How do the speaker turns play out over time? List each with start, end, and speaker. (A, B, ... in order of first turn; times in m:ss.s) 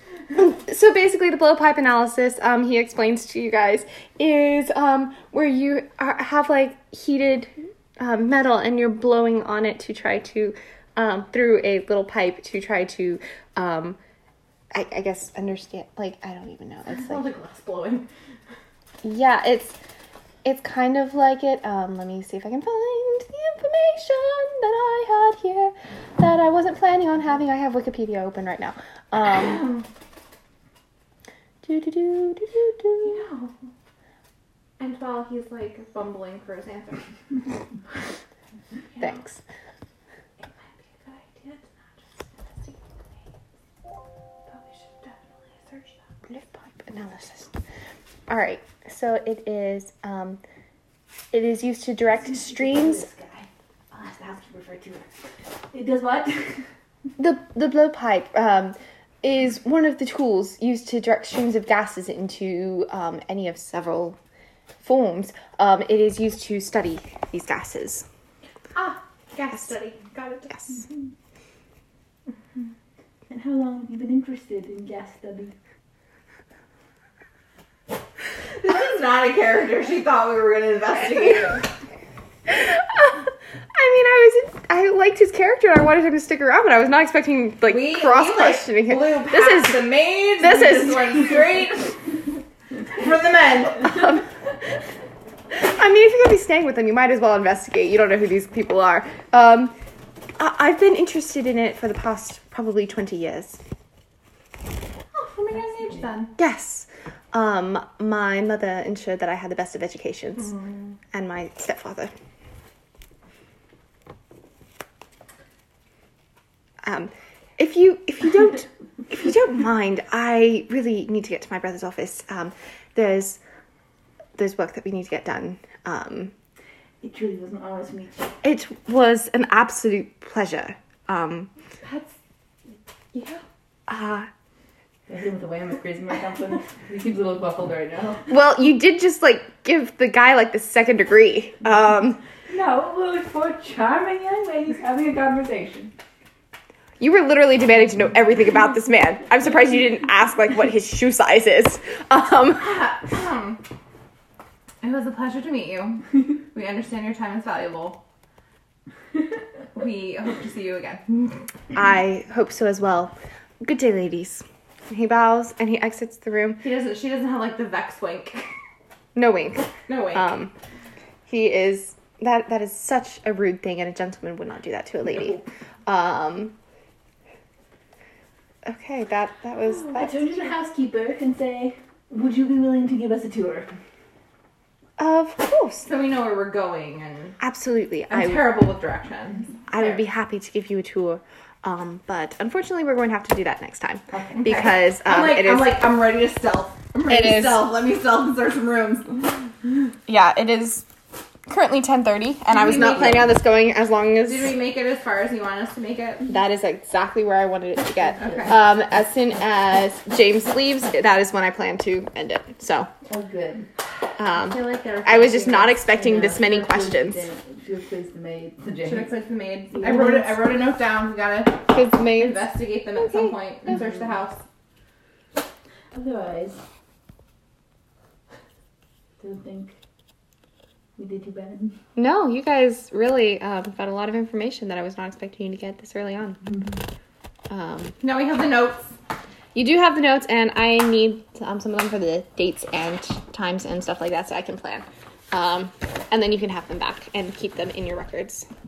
0:00.4-0:14.0 A
0:14.7-0:17.2 A
0:16.9-0:18.1 B
0:19.0-0:19.8 A
0:20.4-0:29.7 A
0:29.2-0:29.9 B
0:31.6-0:33.2 A
0:33.0-0:33.5 B
0:34.8-0:37.1 B
0:38.9-0:39.2 B
0:39.0-0:39.4 A
0:40.4-0:43.0 B
0:44.5-0:46.0 B
0:46.3-0:47.5 A
0:48.3-0:50.4 A
0:51.3-0:53.1 A
0:52.3-0:56.7 C
0:57.2-1:04.2 A
1:04.8-1:08.1 A
1:08.8-1:10.9 B
1:13.3-1:15.6 C
1:18.6-1:21.7 B
1:22.5-1:31.0 A
1:27.7-1:32.0 B
1:32.9-1:34.2 B
1:33.9-1:34.2 A
1:35.5-1:39.8 A
1:40.4-1:43.6 A
1:45.1-1:46.4 B
1:46.4-1:50.6 A
1:50.5-1:50.8 B
1:51.1-1:52.1 A
1:56.8-2:03.4 A
2:04.4-2:06.3 A
2:07.0-2:08.3 C
2:08.4-2:11.5 A
2:11.8-2:12.2 B
2:13.1-2:13.4 B
2:13.9-2:14.3 A
2:15.1-2:18.3 C
2:18.3-2:22.2 A
2:22.5-2:25.9 C
2:27.0-2:32.8 A
2:32.6-2:33.6 B
2:34.8-2:38.0 B
2:39.8-2:41.4 B
2:41.7-2:46.6 A
2:46.6-2:48.5 B
2:49.2-2:50.5 A
2:49.9-2:50.3 B
2:51.3-2:56.6 A
2:58.7-3:00.2 A
2:59.9-3:03.8 C
3:05.0-3:05.9 A
3:05.8-3:07.4 B
3:07.4-3:08.5 A
3:08.1-3:09.5 B
3:09.7-3:15.8 A
3:14.3-3:19.5 B
3:17.1-3:17.7 A
3:20.1-3:20.9 A
3:21.5-3:24.6 A
3:22.5-3:23.3 B
3:22.7-3:23.3 C
3:24.3-3:26.3 B
3:26.3-3:32.9 A
3:28.2-3:28.6 B
3:28.2-3:28.6 C
3:33.1-3:33.7 C
3:34.2-3:37.3 A
3:34.4-3:35.9 B
3:35.9-3:39.2 C
3:38.8-3:44.4 B
3:39.7-3:40.4 C
3:41.7-3:42.4 A
3:43.0-3:43.3 A
3:45.9-3:46.6 C
3:49.2-3:49.8 C
3:51.0-3:51.8 C
3:52.0-3:56.4 A
3:56.4-3:56.8 C
3:57.5-3:58.0 A
3:58.0-3:58.9 B
3:59.6-4:08.5 A